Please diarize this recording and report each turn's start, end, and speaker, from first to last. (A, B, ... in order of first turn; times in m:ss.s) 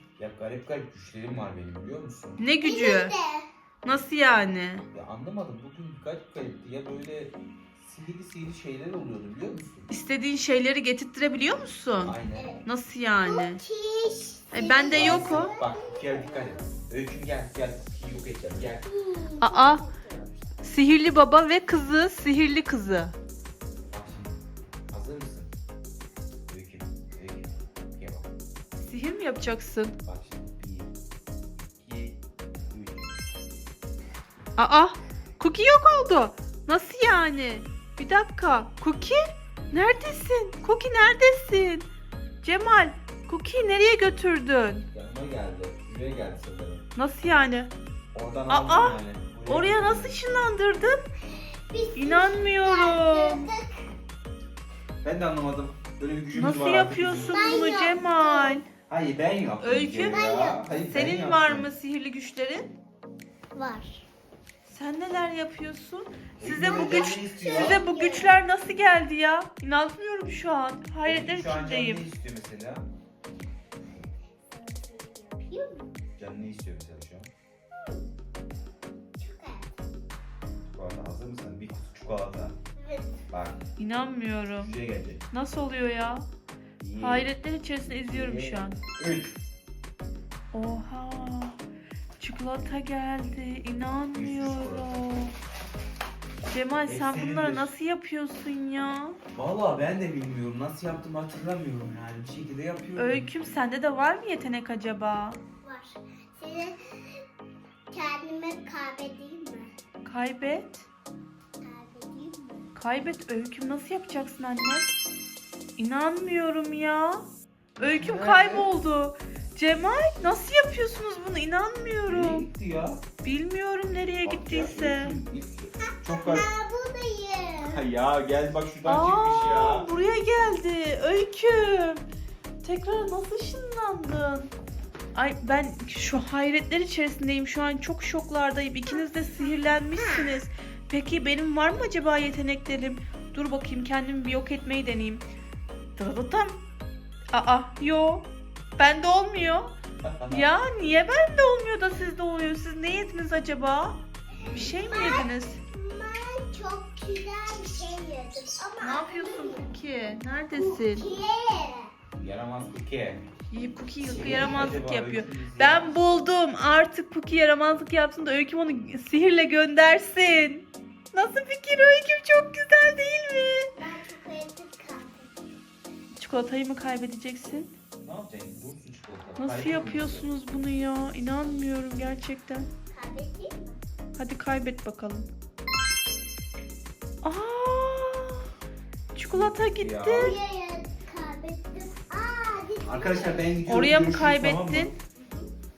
0:00.2-0:02.4 A
0:02.4-0:03.1 B
0:02.6-0:03.5 C
0:03.8-0:04.8 B
0:04.9-0:09.9 A
0:09.9-0:13.6 B
0:12.0-0:12.5 A
0:12.3-0:12.6 C
0:13.2-0:16.6 C
0:14.5-0:15.5 B
0:14.9-0:18.9 A
0:18.8-0:20.4 C
0:19.4-0:19.8 B
0:20.6-0:23.1 B
0:23.9-0:24.4 A
0:24.9-0:25.5 A
0:26.5-0:28.3 A
0:28.8-0:30.0 B
0:30.0-0:30.9 A
0:31.6-0:32.2 A
0:32.7-0:33.2 A
0:34.6-0:41.9 B
0:42.4-0:44.8 B
0:44.9-0:46.8 A
0:46.9-0:47.7 B
0:48.1-0:50.2 A
0:48.5-0:51.0 B
0:51.3-0:53.7 C
0:52.0-0:53.5 B
0:55.0-0:57.6 A
0:56.3-0:58.6 B
0:57.3-0:58.6 C
0:58.9-1:01.7 A
0:59.6-1:00.2 B
1:00.0-1:00.6 C
1:00.8-1:02.7 B
1:03.5-1:04.0 C
1:04.6-1:12.0 B
1:06.4-1:07.8 A
1:06.6-1:08.4 C
1:11.0-1:12.8 A
1:14.5-1:15.9 C
1:16.2-1:17.3 A
1:17.7-1:18.0 C
1:19.2-1:19.7 C
1:20.7-1:22.6 A
1:22.8-1:23.2 C
1:23.3-1:23.6 A
1:23.8-1:24.7 B
1:24.6-1:25.2 A
1:25.3-1:26.2 B
1:26.8-1:27.3 A
1:27.0-1:28.8 B
1:28.0-1:29.3 A
1:30.5-1:31.6 B
1:32.2-1:35.3 B
1:34.1-1:35.0 A
1:36.4-1:39.2 B
1:36.9-1:37.7 A
1:39.3-1:43.3 A
1:43.0-1:45.4 B
1:45.6-1:47.2 C
1:47.9-1:49.7 C
1:50.0-1:50.9 B
1:51.6-1:52.7 C
1:52.7-1:54.9 B
1:55.8-1:57.2 B
1:57.8-2:02.5 B
1:57.8-1:58.7 A
2:02.0-2:03.0 A
2:03.2-2:05.2 B
2:04.2-2:06.5 A
2:05.9-2:07.8 C
2:07.6-2:09.9 A
2:08.8-2:12.0 B
2:12.6-2:14.5 B
2:15.1-2:25.2 B
2:26.0-2:26.6 B
2:27.3-2:28.2 B
2:28.8-2:29.7 B
2:30.0-2:30.5 A
2:30.3-2:35.6 B
2:34.3-2:34.8 A
2:34.8-2:39.7 C
2:38.8-2:41.1 B
2:40.6-2:41.9 C
2:42.2-2:43.2 A
2:43.5-2:53.7 B
2:44.0-2:46.0 A
2:53.8-2:55.3 C
2:56.2-2:57.7 B
2:58.0-3:00.3 A
2:59.4-3:02.7 B
3:02.9-3:03.8 C
3:04.2-3:05.3 B
3:07.2-3:08.4 B
3:09.1-3:10.3 B
3:09.3-3:10.4 A
3:10.1-3:13.5 C
3:12.8-3:14.9 A
3:13.6-3:14.9 B
3:15.2-3:15.5 C